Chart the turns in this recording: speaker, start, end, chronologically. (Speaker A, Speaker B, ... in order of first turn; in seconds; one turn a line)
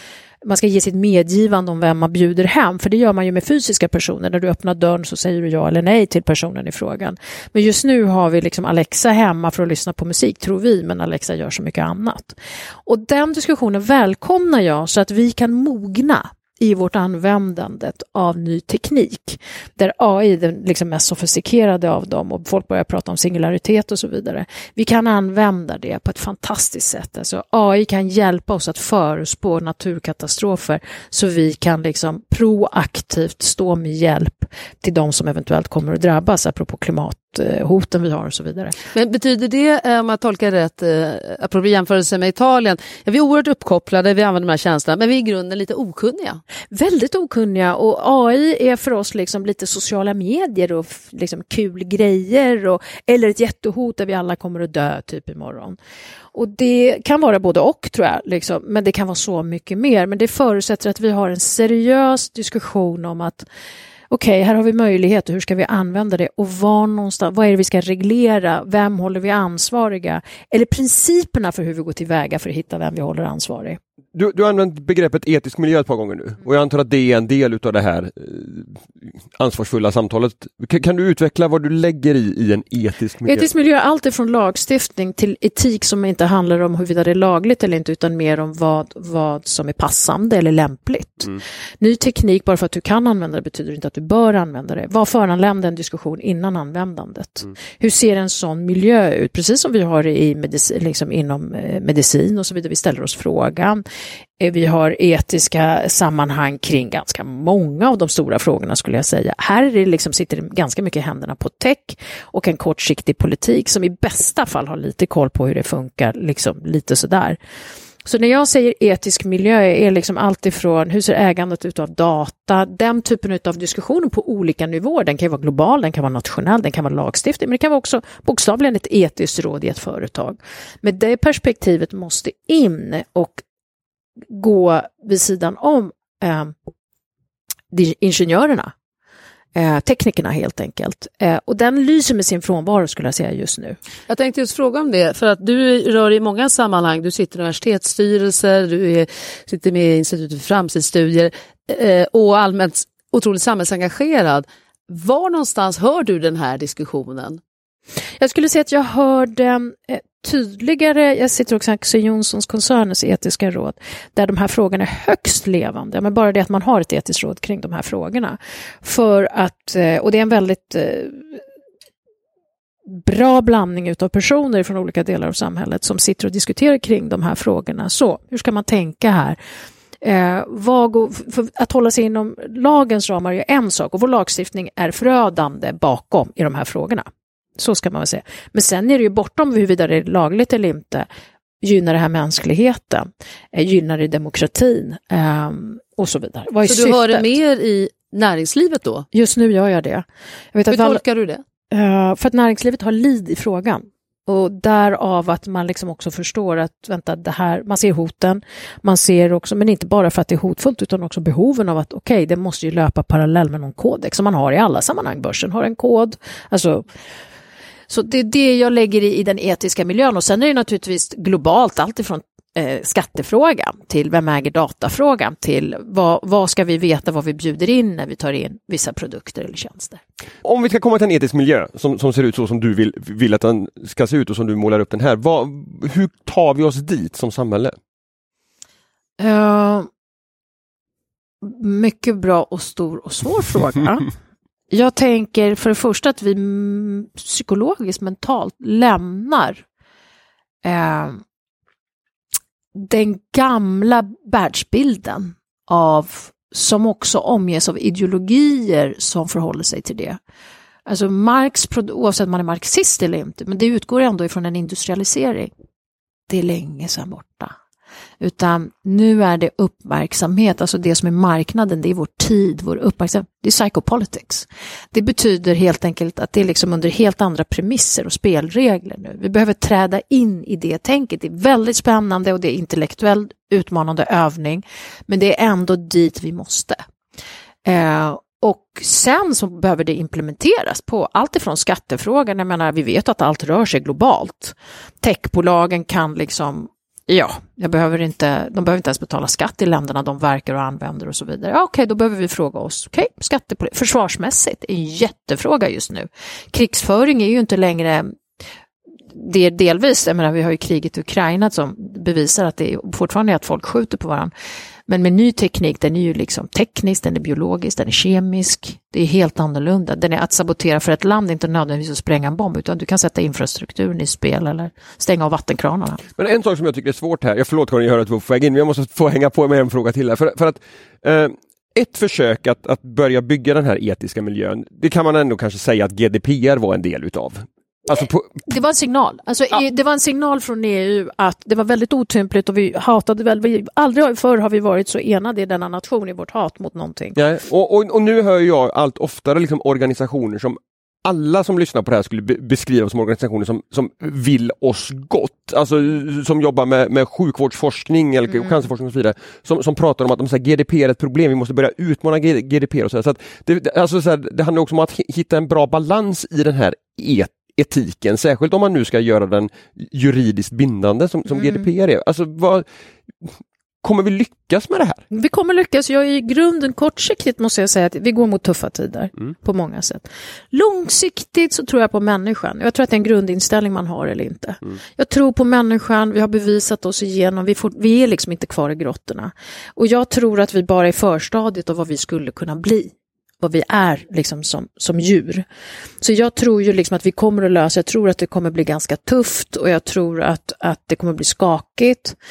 Speaker A: 0.4-38.8
Speaker B: 38.9-46.4
Speaker A: 46.7-55.8
Speaker A: 56.3-63.5
Speaker A: 64.1-73.8
Speaker C: 74.1-83.5
Speaker A: 83.2-103.8
Speaker A: 104.4-117.4
Speaker A: 118.0-133.4
Speaker A: 134.3-136.5
Speaker A: 137.7-138.7
Speaker A: 139.5-143.8
Speaker B: 144.1-157.4
Speaker A: 158.2-171.4
Speaker A: 172.9-179.4
Speaker A: 180.0-187.0
Speaker A: 187.6-191.1
Speaker A: 191.6-197.3
Speaker B: 196.7-199.1
Speaker A: 199.1-201.0
Speaker B: 200.7-201.4
Speaker A: 201.7-216.8
Speaker A: 217.9-230.0
Speaker C: 230.4-237.7
Speaker A: 239.2-239.9
Speaker A: 241.4-244.1
Speaker A: 244.7-249.6
Speaker A: 250.6-251.2
Speaker A: 252.8-260.2
Speaker A: 260.9-265.5
Speaker A: 266.3-267.5
Speaker A: 268.2-286.8
Speaker A: 287.6-308.1
Speaker A: 309.1-314.3
Speaker A: 314.9-326.0
Speaker C: 326.2-338.3
Speaker A: 338.4-347.2
Speaker C: 347.1-372.6
Speaker C: 373.8-375.0
Speaker A: 375.1-395.4
Speaker A: 396.0-402.1